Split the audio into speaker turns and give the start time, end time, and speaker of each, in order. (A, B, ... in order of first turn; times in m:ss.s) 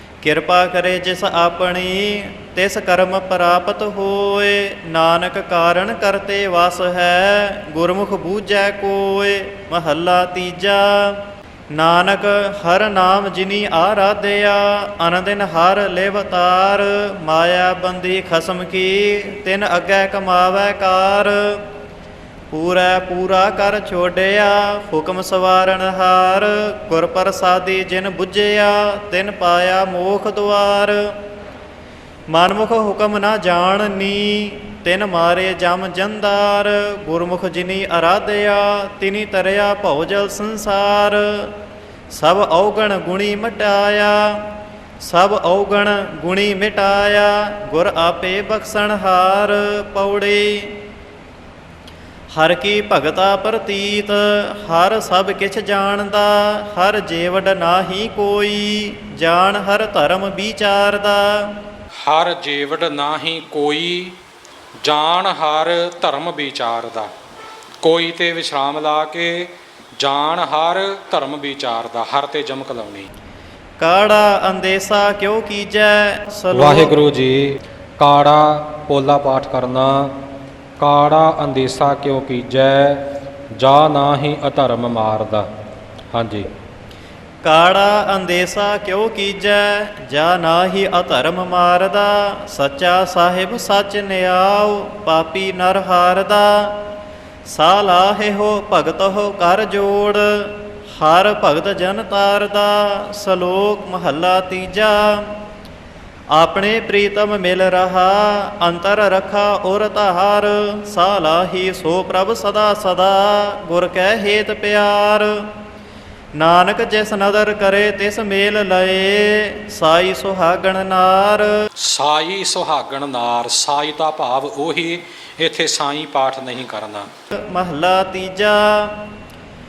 0:00.2-0:11.2 A
0:11.7-0:21.6 A
0:22.5-0:31.1 A
0:32.3-0:41.5 A
0:42.1-0:44.4 A
0:45.0-0:50.8 A
0:52.3-1:01.5 A
1:02.0-1:04.2 B
1:04.8-1:07.1 B
1:07.8-1:13.1 B
1:13.8-1:17.0 A
1:16.5-1:20.1 B
1:20.8-1:23.1 B
1:23.6-1:25.5 B
1:26.1-1:26.5 B
1:27.4-1:36.8 A
1:37.4-1:45.3 A
1:46.3-1:55.3 A
1:56.4-2:01.5 A
2:01.8-2:07.1 B
2:07.4-2:09.0 A